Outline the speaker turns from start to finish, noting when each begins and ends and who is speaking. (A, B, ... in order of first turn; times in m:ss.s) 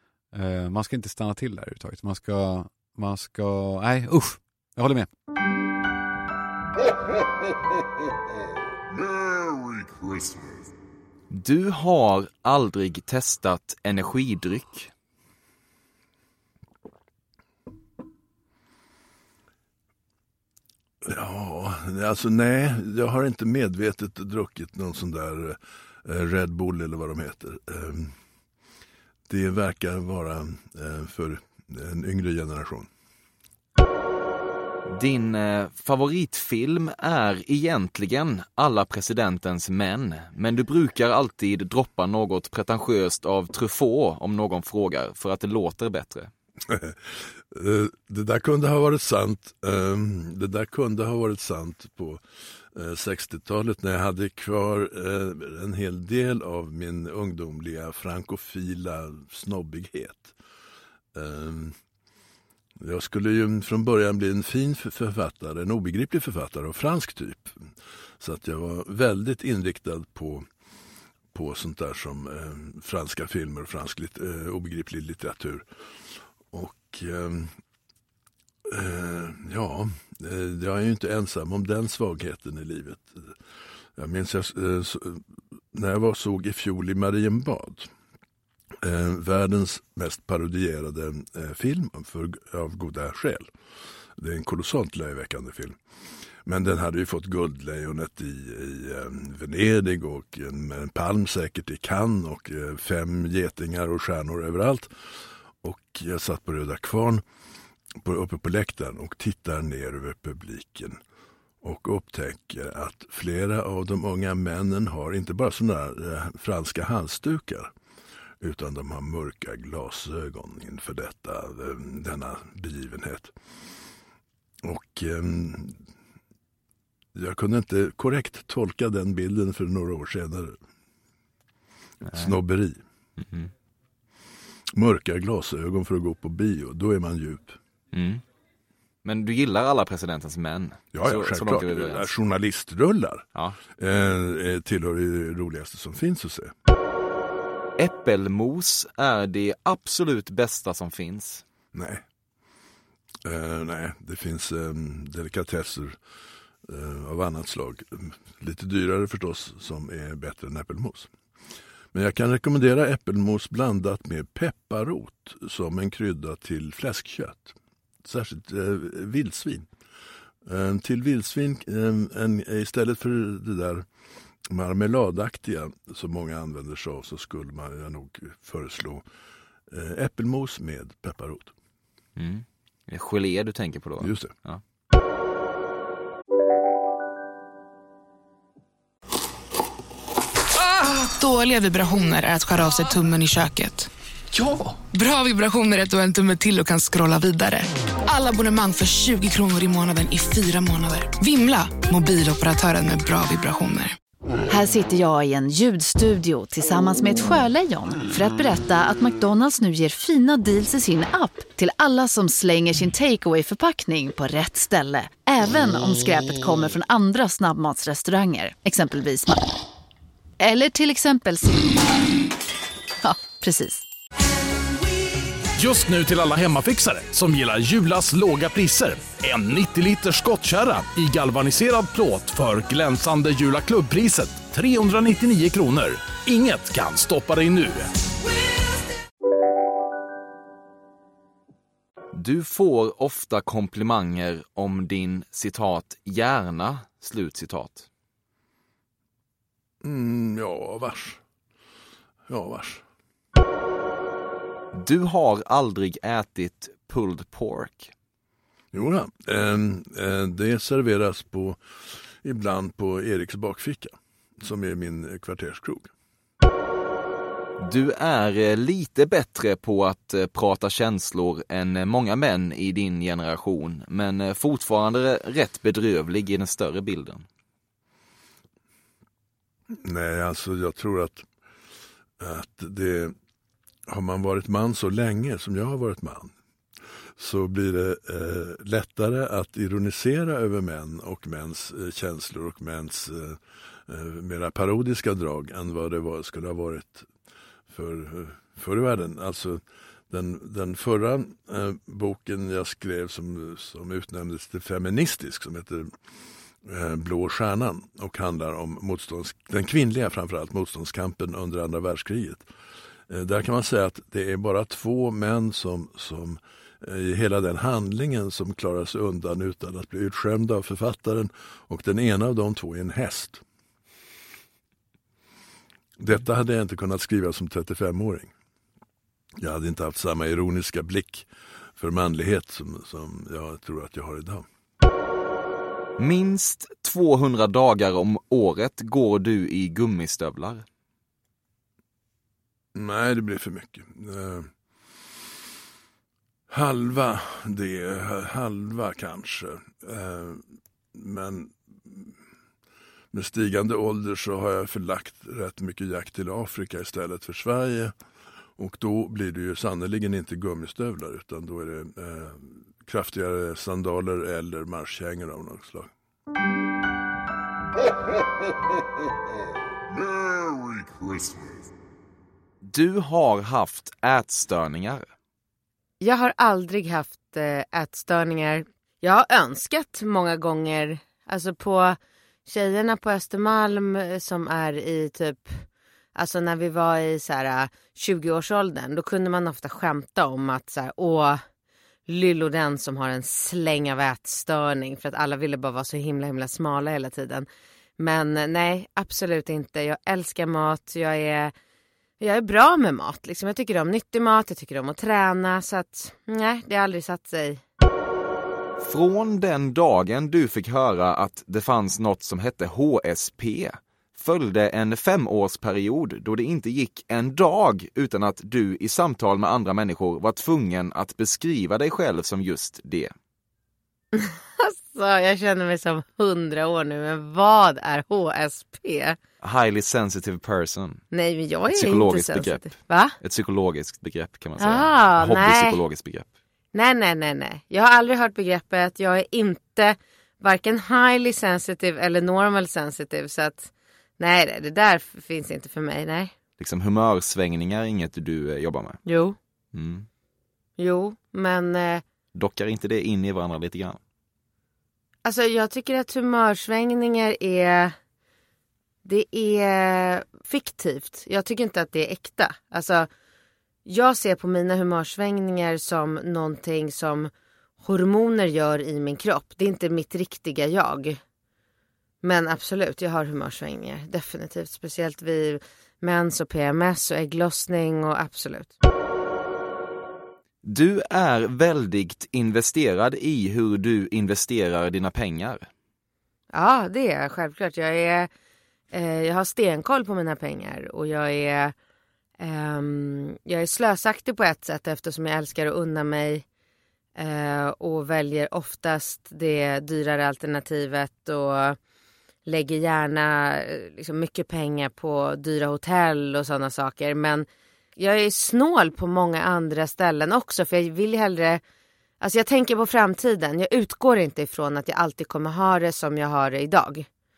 0:00.3-0:05.1 A
0:11.3-0:14.9 B
0:21.0-0:28.1 C
0:29.3-0:32.9 C
0:34.8-0:46.3 B
0:46.7-0:52.2 C
0:52.7-1:00.3 C
1:01.1-1:01.7 C
1:02.8-1:07.6 C
1:08.2-1:10.5 C
1:11.3-1:15.6 C
1:16.5-1:17.5 C
1:18.7-1:23.4 C
1:24.0-1:27.9 C
1:28.8-1:33.5 C
1:34.2-1:35.8 C
1:36.4-1:44.9 C
1:45.6-1:47.2 C
1:48.0-1:51.0 C
1:51.6-1:57.7 C
1:58.4-2:03.3 C
2:04.6-2:05.8 C
2:07.1-2:10.6 C
2:12.1-2:12.4 B
2:12.1-2:12.8 C
2:13.2-2:13.5 B
2:14.7-2:17.6 C
2:17.9-2:18.2 B
2:19.0-2:22.1 B
2:20.9-2:26.5 C
2:27.8-2:31.4 B
2:31.7-2:32.0 C
2:33.2-2:36.0 C
2:36.6-2:41.1 C
2:41.9-2:49.7 C
2:50.4-2:53.8 C
2:54.5-2:59.0 C
2:59.7-3:01.5 C
3:02.2-3:04.6 B
3:04.0-3:04.3 C
3:10.7-3:13.9 D
3:14.7-3:24.0 D
3:24.5-3:39.4 E
3:40.4-3:41.7 E
3:43.0-3:43.8 E
3:45.6-3:57.9 F
4:02.1-4:07.9 B
4:09.8-4:11.2 C
4:12.3-4:12.8 C
4:14.7-4:17.9 B
4:18.7-4:25.9 C
4:27.6-4:37.2 B
4:39.8-4:41.3 C
4:42.2-4:43.1 C
4:43.9-4:46.3 C
4:47.2-4:57.1 C
4:57.7-5:05.9 C
5:06.6-5:12.5 C
5:13.1-5:23.4 C
5:26.0-5:28.3 C
5:29.4-5:34.4 C
5:36.0-5:40.6 B
5:42.7-5:44.5 C
5:46.5-5:52.1 C
5:53.1-5:57.9 C
5:58.6-6:05.9 C
6:12.6-6:15.0 B
6:16.0-6:31.4 G
6:32.1-6:37.5 G
6:38.0-6:41.5 G
6:42.2-6:47.6 G
6:48.8-7:03.1 B
7:04.1-7:09.2 G
7:09.4-7:11.0 B
7:11.1-7:13.2 G
7:11.7-7:12.7 B
7:13.2-7:16.2 B
7:14.6-7:15.8 G
7:16.7-7:26.3 G
7:26.6-7:29.0 B
7:29.0-7:29.4 G
7:29.7-7:30.1 B
7:30.8-7:32.0 G
7:32.3-7:34.0 B
7:35.2-7:38.0 G
7:39.0-7:43.1 G
7:43.8-7:51.2 G
7:52.2-7:58.7 G
8:00.6-8:05.7 B
8:06.5-8:08.3 G
8:08.9-8:11.7 G
8:12.4-8:16.4 G
8:17.2-8:21.8 G
8:22.4-8:31.6 G
8:32.2-8:37.0 G